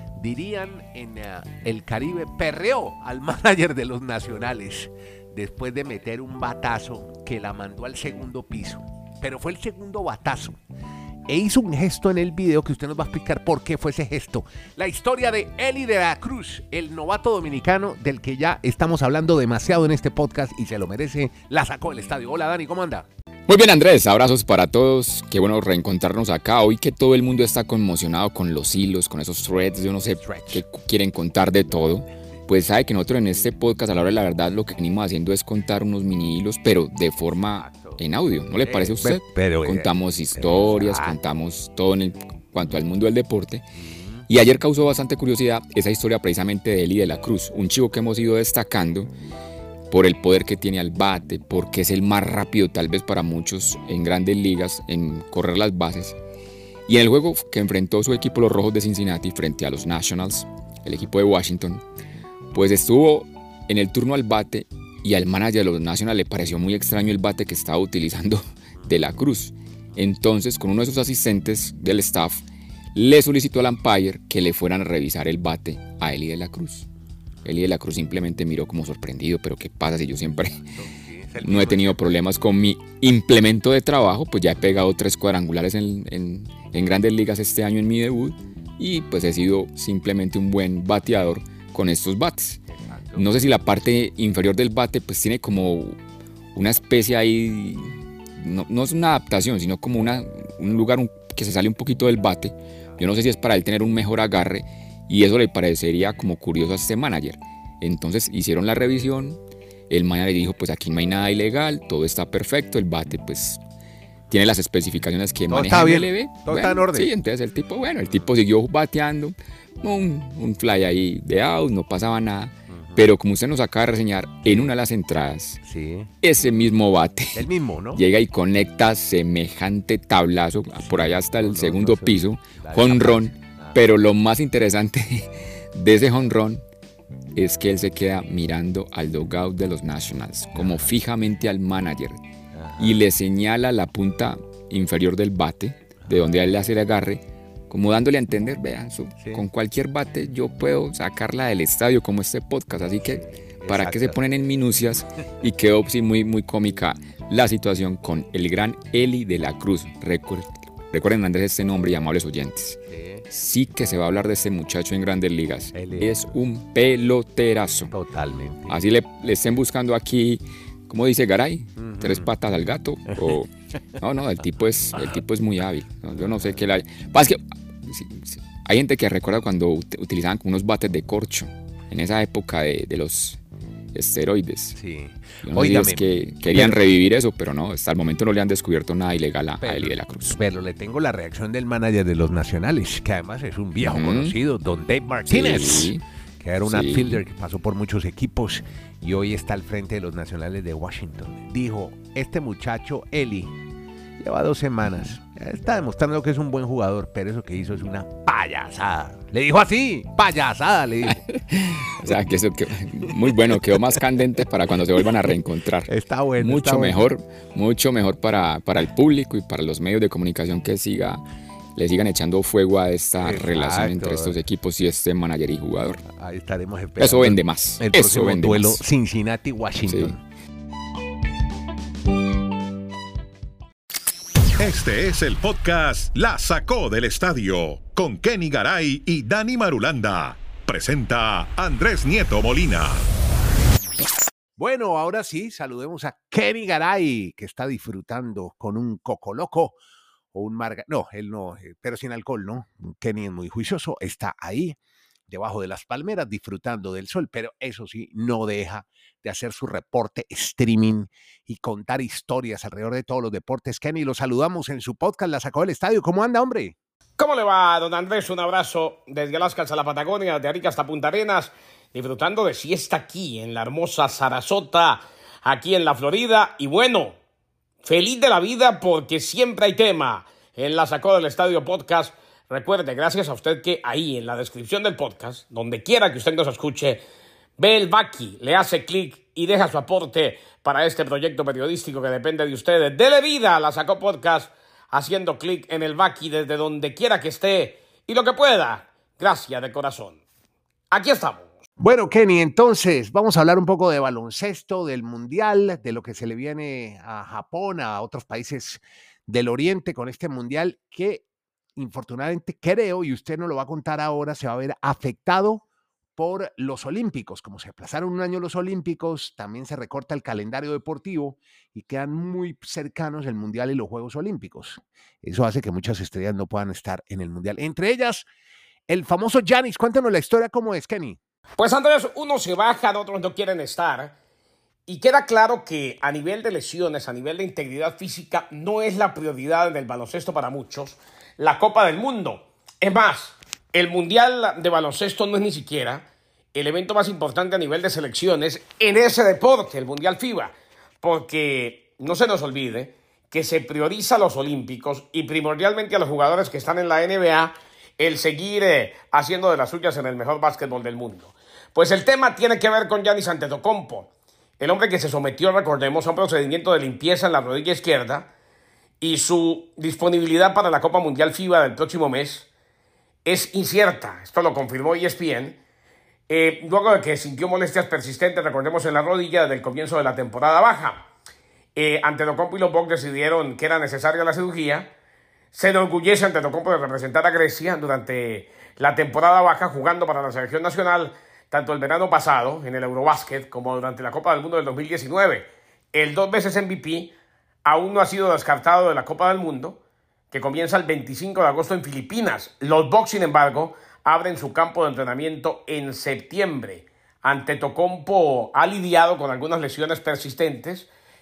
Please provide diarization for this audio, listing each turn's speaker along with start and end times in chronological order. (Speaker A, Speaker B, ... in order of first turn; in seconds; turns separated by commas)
Speaker A: 0.2-10.6, Speaker A: 11.3-23.1, Speaker B: 23.5-43.7, Speaker A: 30.2-30.6, Speaker A: 37.6-38.0, Speaker A: 38.6-41.2, Speaker A: 43.8-44.3, Speaker B: 44.3-49.1, Speaker B: 49.9-56.2, Speaker B: 56.9-61.8, Speaker B: 62.5-72.4, Speaker B: 73.0-76.9, Speaker B: 77.4-80.7, Speaker A: 80.7-82.0, Speaker B: 81.4-92.6, Speaker A: 92.8-93.3, Speaker B: 93.1-96.0, Speaker B: 96.5-109.4, Speaker B: 109.9-113.6, Speaker B: 114.3-125.6, Speaker A: 115.5-117.1, Speaker A: 122.7-123.1, Speaker A: 124.5-124.7, Speaker A: 125.6-126.1, Speaker B: 126.2-136.6, Speaker A: 127.3-128.0, Speaker A: 130.8-133.8, Speaker B: 137.3-142.2, Speaker A: 140.6-140.9, Speaker A: 142.5-143.1, Speaker B: 142.8-167.9, Speaker A: 146.0-146.3, Speaker A: 153.6-154.2, Speaker A: 162.9-163.2, Speaker A: 165.7-166.2, Speaker A: 167.9-168.8, Speaker B: 168.7-183.4, Speaker A: 171.8-172.3, Speaker A: 176.2-176.6, Speaker B: 183.9-184.8, Speaker A: 184.8-186.8, Speaker B: 185.4-190.4, Speaker A: 189.6-203.6, Speaker B: 193.8-194.4, Speaker B: 195.3-196.0, Speaker B: 196.7-197.2, Speaker A: 204.2-211.2, Speaker B: 211.1-221.2, Speaker A: 213.1-213.8, Speaker A: 215.9-217.0, Speaker B: 221.8-226.0, Speaker A: 223.2-224.4, Speaker A: 226.1-230.2, Speaker B: 227.0-228.8, Speaker B: 229.9-230.1, Speaker C: 234.6-243.0, Speaker A: 244.6-249.8, Speaker A: 250.3-254.8, Speaker A: 255.3-266.8, Speaker D: 267.2-277.1, Speaker D: 277.8-287.0, Speaker D: 287.6-300.2, Speaker D: 300.9-301.5, Speaker A: 301.8-311.2, Speaker A: 311.8-315.6, Speaker A: 316.2-328.3, Speaker A: 328.9-331.2, Speaker D: 331.6-334.1, Speaker D: 334.9-364.1, Speaker D: 364.6-368.3, Speaker D: 369.0-372.5, Speaker D: 373.2-375.6, Speaker D: 376.3-381.1, Speaker D: 381.8-384.9, Speaker D: 385.5-397.1, Speaker D: 397.6-399.8, Speaker D: 400.3-410.9